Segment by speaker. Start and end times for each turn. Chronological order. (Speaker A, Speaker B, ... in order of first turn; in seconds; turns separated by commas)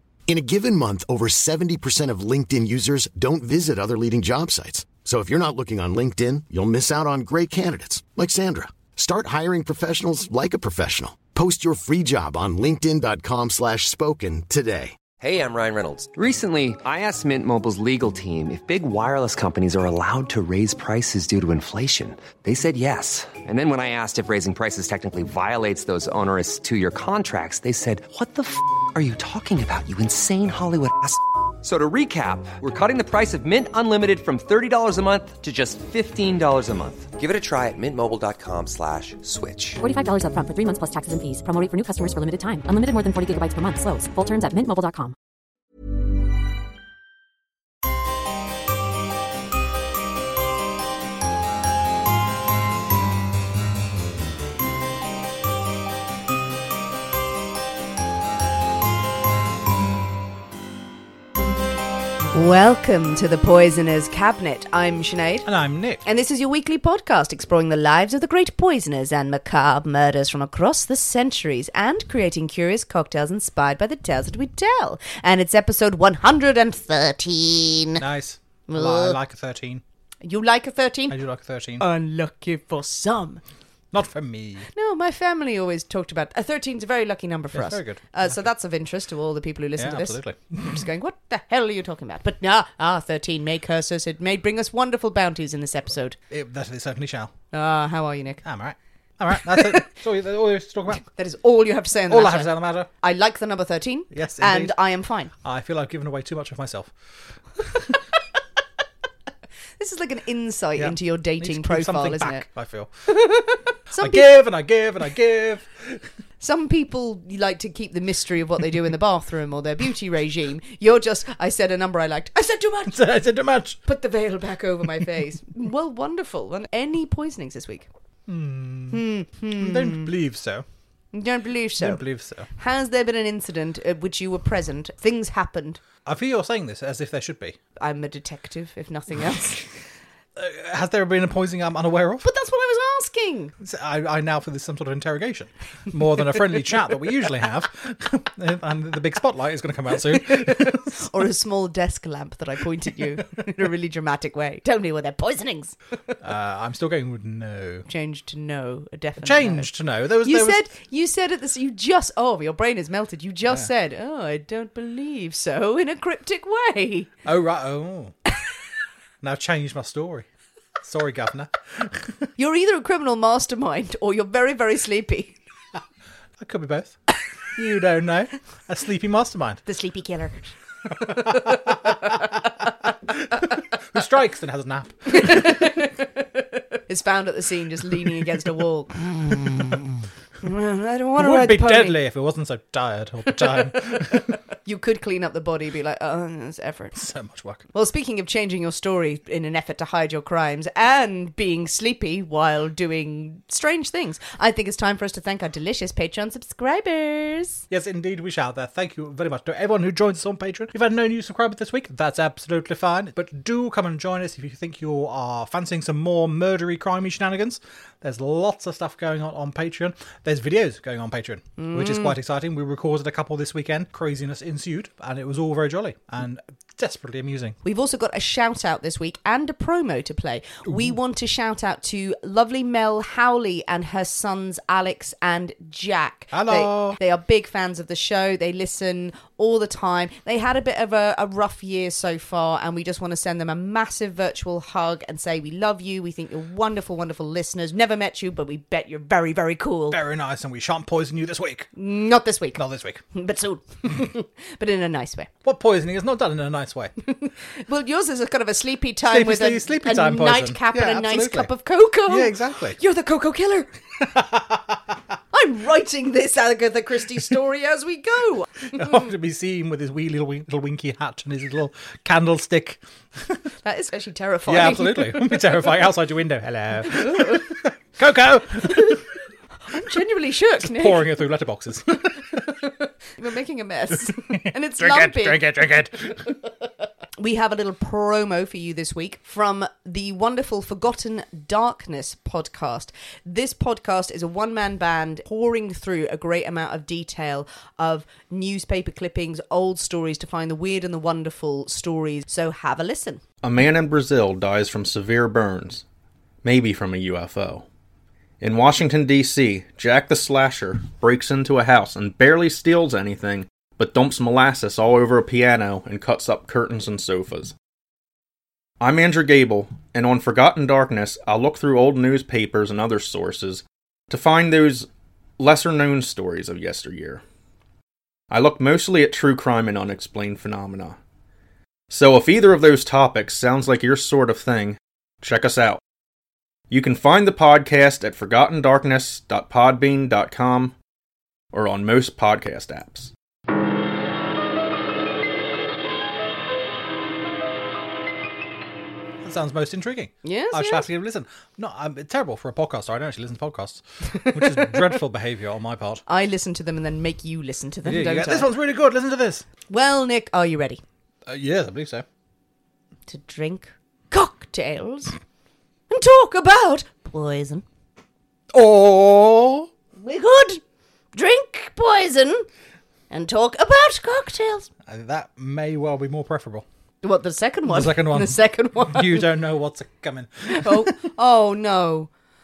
Speaker A: 0.3-15.0, Speaker B: 15.2-39.8, Speaker C: 39.8-45.1, Speaker D: 62.3-65.5, Speaker E: 65.4-66.0, Speaker D: 66.0-78.0, Speaker E: 78.0-79.8, Speaker D: 78.7-79.2, Speaker D: 80.2-81.2, Speaker E: 81.1-81.8, Speaker D: 81.8-83.4, Speaker E: 83.9-84.7, Speaker D: 84.7-96.2, Speaker E: 87.5-88.4, Speaker E: 89.8-90.8, Speaker E: 96.3-97.3, Speaker D: 97.5-98.4, Speaker E: 98.4-101.0, Speaker D: 99.5-99.8, Speaker D: 101.0-105.3, Speaker E: 102.1-102.9, Speaker E: 104.1-104.8, Speaker E: 105.4-106.9, Speaker D: 109.8-112.4, Speaker E: 110.8-112.9, Speaker D: 113.1-114.4, Speaker E: 114.0-116.1, Speaker D: 116.4-123.0, Speaker E: 122.9-123.8, Speaker D: 123.8-127.9, Speaker E: 128.3-129.0, Speaker D: 128.9-130.1, Speaker E: 129.6-130.7, Speaker D: 131.1-132.0, Speaker E: 131.8-132.5, Speaker D: 132.5-135.8, Speaker E: 136.0-137.6, Speaker D: 137.8-139.7, Speaker E: 140.3-142.3, Speaker D: 142.2-143.5, Speaker E: 143.6-151.1, Speaker D: 150.3-155.8, Speaker E: 156.2-157.9, Speaker D: 157.9-159.7, Speaker E: 159.2-160.6, Speaker D: 160.2-167.1, Speaker E: 167.2-168.1, Speaker E: 169.2-170.2, Speaker E: 170.8-172.3, Speaker D: 172.4-175.4, Speaker E: 176.4-177.0, Speaker E: 177.5-179.6, Speaker D: 179.7-180.5, Speaker D: 181.0-182.5, Speaker E: 181.1-181.9, Speaker E: 183.3-185.6, Speaker D: 185.1-189.1, Speaker D: 190.4-192.0, Speaker E: 191.2-194.3, Speaker D: 194.6-197.0, Speaker E: 196.9-197.6, Speaker D: 197.7-207.6, Speaker E: 207.7-227.6, Speaker D: 221.6-222.2, Speaker D: 227.6-250.0, Speaker E: 236.3-237.0, Speaker E: 249.9-251.7, Speaker D: 251.8-252.6, Speaker E: 252.5-253.0, Speaker D: 253.1-255.3, Speaker E: 255.4-256.9, Speaker D: 257.1-263.7, Speaker E: 259.1-261.5, Speaker E: 262.1-262.8, Speaker E: 264.0-264.8, Speaker D: 265.3-268.9, Speaker E: 268.7-273.4, Speaker D: 273.6-275.6, Speaker E: 274.5-279.1, Speaker D: 276.9-277.5, Speaker D: 278.7-279.0, Speaker D: 279.7-281.1, Speaker E: 280.6-282.5, Speaker D: 283.1-285.4, Speaker E: 284.1-286.4, Speaker D: 287.2-303.2, Speaker F: 303.4-305.8, Speaker F: 306.4-307.6, Speaker F: 308.4-317.5, Speaker F: 318.8-324.9, Speaker F: 325.4-327.2, Speaker F: 328.3-331.0, Speaker F: 331.9-335.8, Speaker F: 336.7-340.7, Speaker F: 341.5-343.1, Speaker E: 349.2-356.0, Speaker D: 350.2-350.9, Speaker D: 354.1-354.9, Speaker D: 356.1-358.5, Speaker E: 357.8-359.4, Speaker D: 359.7-360.8, Speaker E: 361.2-362.0, Speaker D: 363.1-365.1, Speaker D: 365.9-367.6, Speaker E: 368.5-369.7, Speaker D: 369.9-370.6, Speaker D: 371.1-372.4, Speaker D: 373.1-374.7, Speaker E: 374.9-376.6, Speaker D: 377.0-379.3, Speaker E: 377.7-380.9, Speaker D: 380.5-382.1